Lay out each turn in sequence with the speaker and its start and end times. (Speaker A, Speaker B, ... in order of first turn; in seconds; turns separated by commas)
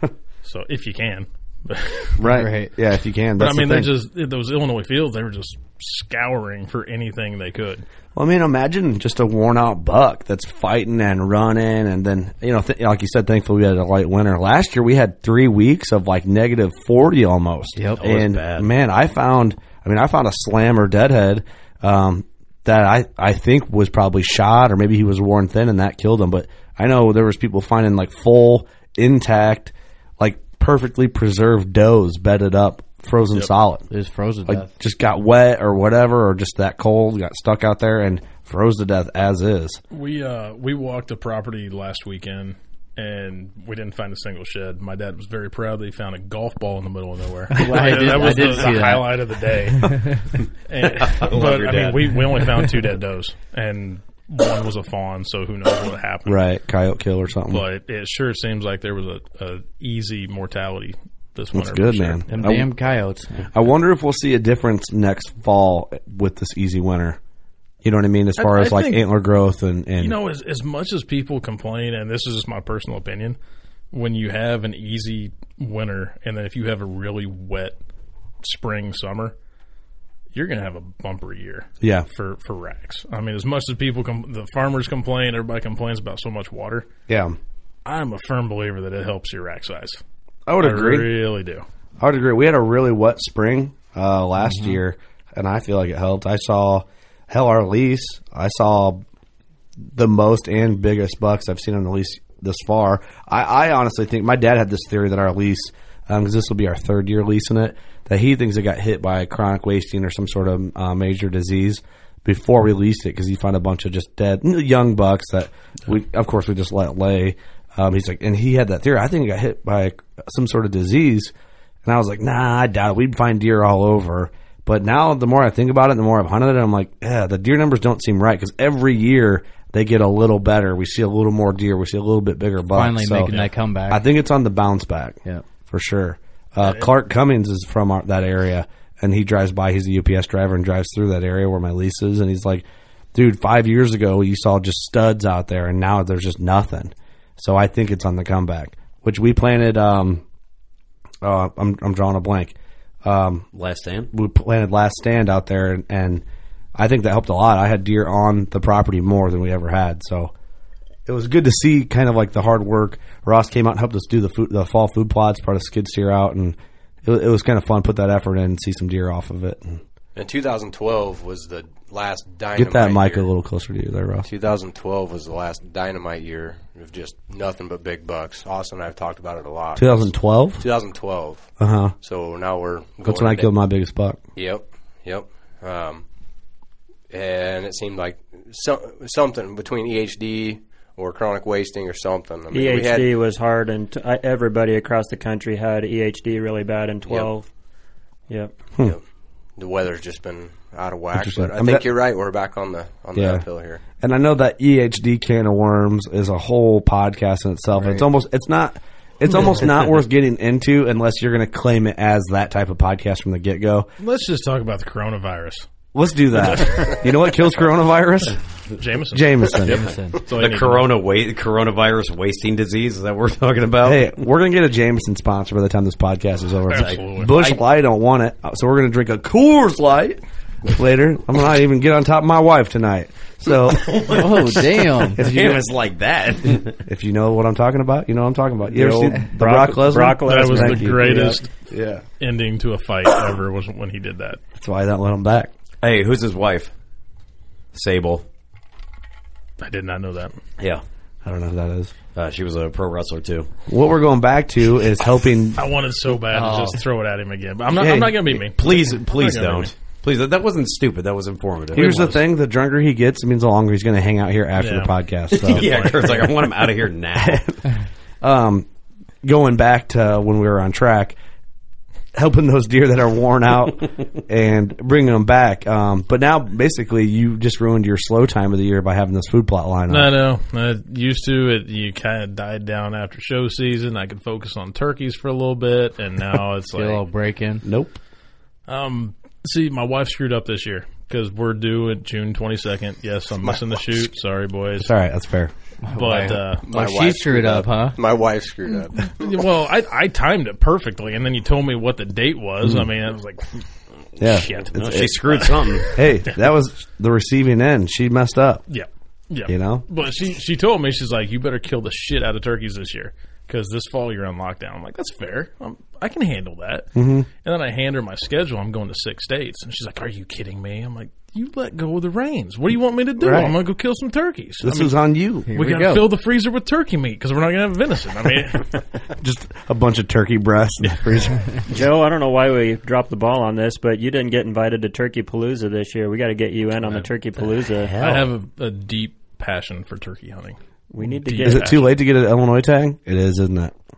Speaker A: 0.4-2.3, Speaker B: 2.2-3.9, Speaker C: 2.3-2.7, Speaker A: 3.4-7.8, Speaker B: 8.1-33.9, Speaker C: 17.8-18.0, Speaker D: 18.0-18.7, Speaker C: 33.9-34.7, Speaker B: 34.5-39.8, Speaker A: 39.9-56.4, Speaker C: 47.5-49.2, Speaker C: 49.8-50.2, Speaker D: 50.8-52.5, Speaker B: 56.3-57.6, Speaker A: 57.5-62.2, Speaker B: 61.5-62.7, Speaker C: 62.3-63.5, Speaker B: 63.5-67.2, Speaker B: 67.8-70.2, Speaker A: 68.4-69.1, Speaker A: 70.0-73.4, Speaker A: 73.9-77.8, Speaker A: 78.4-79.3, Speaker A: 80.3-86.9, Speaker B: 81.8-82.1, Speaker B: 87.1-87.4, Speaker A: 87.8-90.0, Speaker B: 90.5-91.1, Speaker A: 90.6-91.6, Speaker B: 92.0-99.0, Speaker B: 99.9-121.3, Speaker B: 121.8-133.3, Speaker C: 132.7-134.0, Speaker A: 133.3-133.5, Speaker B: 133.9-150.2, Speaker A: 136.6-136.9, Speaker B: 151.2-153.5, Speaker D: 153.5-154.1, Speaker B: 154.1-156.2, Speaker B: 156.8-160.3, Speaker B: 161.1-169.8, Speaker E: 170.2-173.3, Speaker B: 172.5-174.2, Speaker E: 174.2-181.5, Speaker B: 179.8-180.7, Speaker B: 181.6-181.9, Speaker E: 182.0-183.5, Speaker B: 183.0-184.2, Speaker E: 184.3-186.0, Speaker E: 187.1-193.1, Speaker F: 192.5-197.5, Speaker F: 198.3-198.5, Speaker E: 199.6-203.8, Speaker B: 201.1-201.8, Speaker B: 203.1-203.4, Speaker B: 204.0-213.9, Speaker C: 207.8-208.0, Speaker A: 214.0-215.7, Speaker B: 215.9-218.4, Speaker A: 216.5-216.9, Speaker A: 218.8-220.9, Speaker B: 219.1-219.8, Speaker C: 219.6-220.2, Speaker D: 220.3-224.1, Speaker B: 223.8-234.2, Speaker A: 226.7-227.4, Speaker D: 226.7-227.6, Speaker D: 233.6-236.8, Speaker C: 234.1-235.2, Speaker B: 235.2-235.7, Speaker B: 236.8-242.0, Speaker F: 238.7-241.4, Speaker A: 240.2-241.5, Speaker A: 242.2-244.4, Speaker B: 244.6-245.5, Speaker D: 245.8-246.7, Speaker D: 247.7-248.2, Speaker A: 249.6-250.3, Speaker B: 251.2-251.9, Speaker D: 252.1-253.5, Speaker B: 253.7-255.6, Speaker A: 255.5-259.7, Speaker C: 256.4-256.7, Speaker B: 257.8-258.4, Speaker D: 258.6-262.2, Speaker B: 261.7-265.7, Speaker A: 264.6-264.9, Speaker D: 265.3-267.5, Speaker A: 265.4-266.4, Speaker B: 267.2-267.6, Speaker B: 268.2-268.6, Speaker B: 269.2-271.1, Speaker B: 272.1-280.1, Speaker A: 279.9-287.0, Speaker C: 286.7-287.6, Speaker B: 287.6-288.0, Speaker A: 288.7-294.9, Speaker E: 293.4-293.8, Speaker B: 294.8-295.5, Speaker C: 295.8-298.0, Speaker A: 295.9-296.6, Speaker E: 296.6-299.3, Speaker A: 298.9-303.6, Speaker A: 304.2-306.4, Speaker B: 304.2-308.6, Speaker D: 304.7-305.9, Speaker A: 308.7-328.7, Speaker B: 309.5-309.8, Speaker B: 316.9-317.3, Speaker B: 323.2-323.5, Speaker B: 324.6-325.5, Speaker C: 325.5-326.1, Speaker B: 329.2-331.8, Speaker A: 330.8-331.2, Speaker F: 331.7-337.9, Speaker D: 337.8-338.3, Speaker A: 338.0-340.6, Speaker F: 340.9-341.8, Speaker A: 341.2-341.9, Speaker B: 341.4-343.7